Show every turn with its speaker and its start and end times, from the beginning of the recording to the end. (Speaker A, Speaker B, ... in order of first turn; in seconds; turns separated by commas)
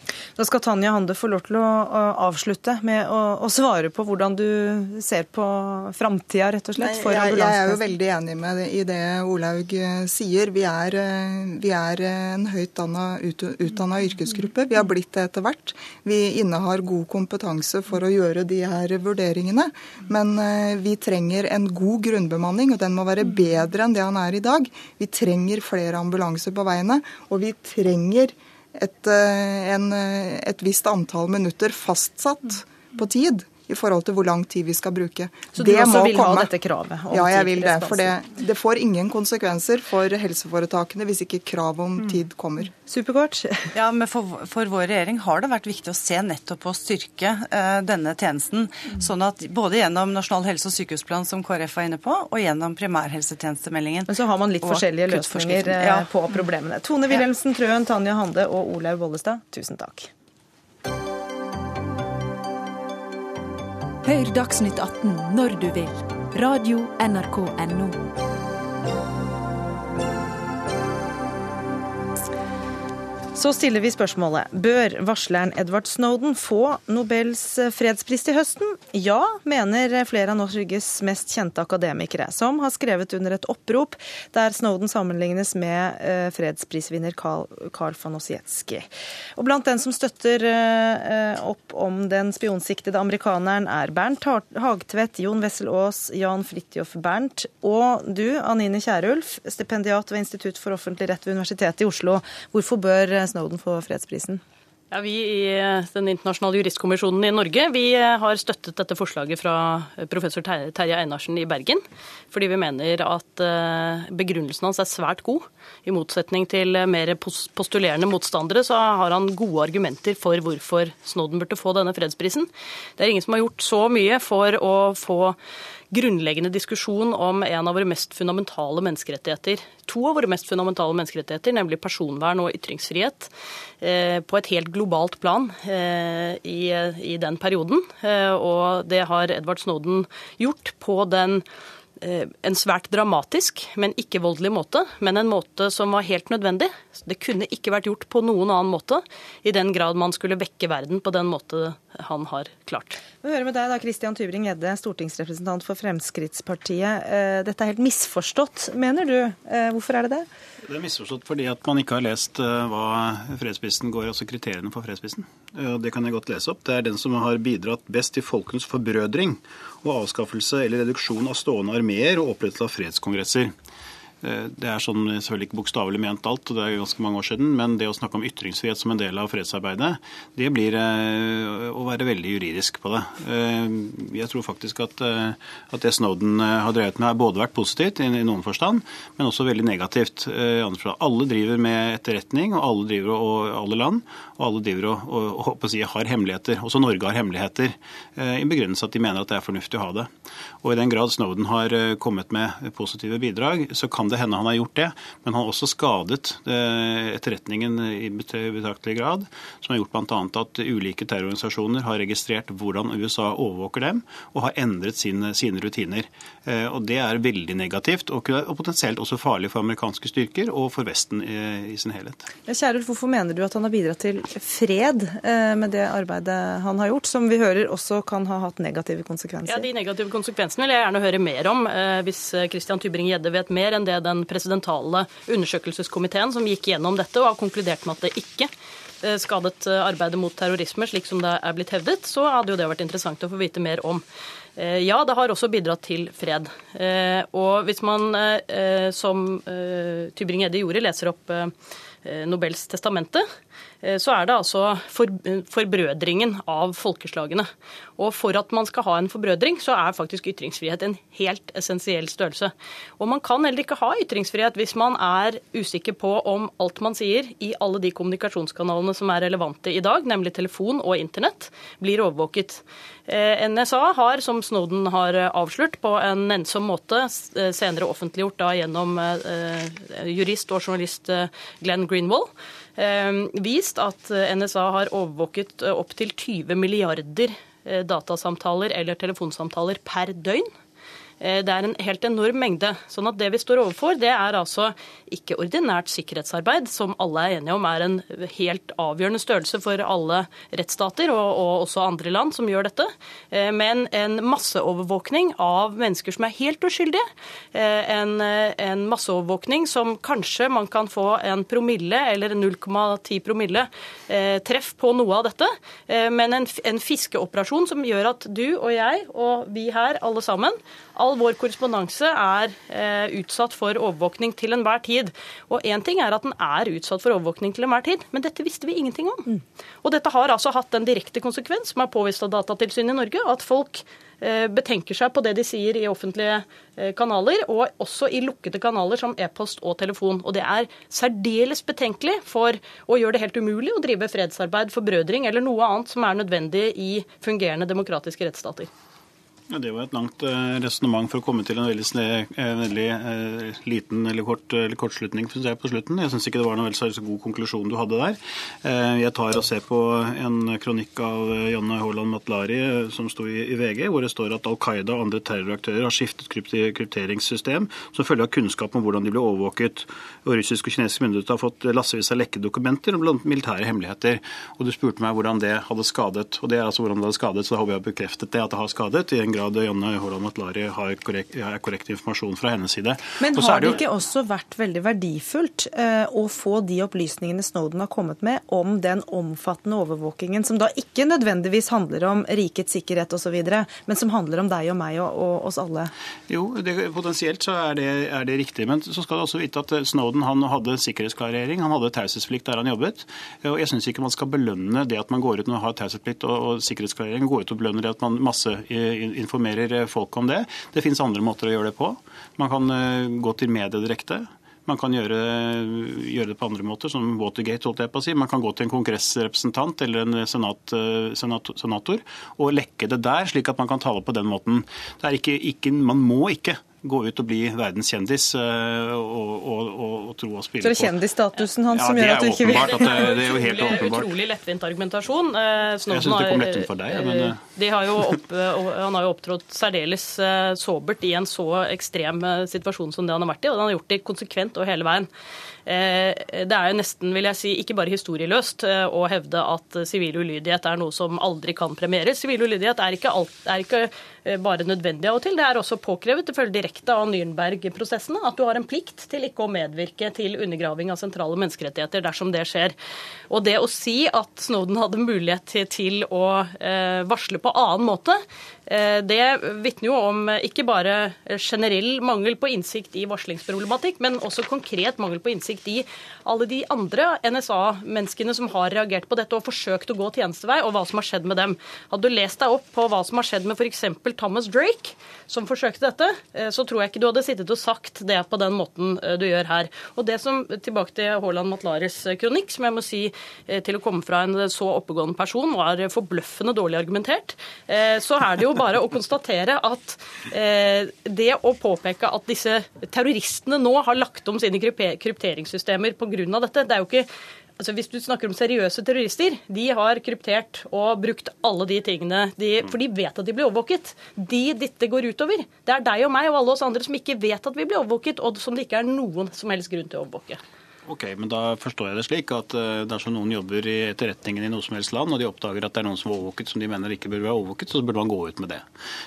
Speaker A: 0.4-7.8, Speaker B: 6.8-36.5, Speaker A: 35.5-38.2, Speaker B: 37.1-42.7, Speaker A: 42.8-43.6, Speaker C: 43.7-56.4, Speaker A: 54.1-60.1, Speaker D: 64.0-68.0, Speaker A: 73.3-104.4, Speaker E: 104.9-125.4, Speaker E: 125.9-141.4, Speaker E: 142.0-153.0, Speaker A: 153.2-160.3, Speaker F: 160.6-173.5, Speaker F: 174.2-200.1, Speaker F: 200.6-222.2, Speaker A: 222.5-229.7, Speaker E: 229.5-238.5, Speaker E: 239.0-244.0, Speaker E: 244.6-251.5, Speaker E: 252.0-253.2, Speaker E: 253.8-290.5, Speaker E: 291.2-329.3, Speaker E: 329.8-348.7, Speaker F: 349.5-383.8, Speaker A: 383.2-395.9, Speaker F: 396.3-431.0, Speaker A: 430.6-433.1, Speaker F: 431.7-434.1, Speaker E: 432.5-445.1, Speaker F: 435.9-437.5, Speaker E: 445.7-462.8, Speaker E: 463.3-507.1, Speaker E: 507.6-520.4, Speaker F: 520.9-528.7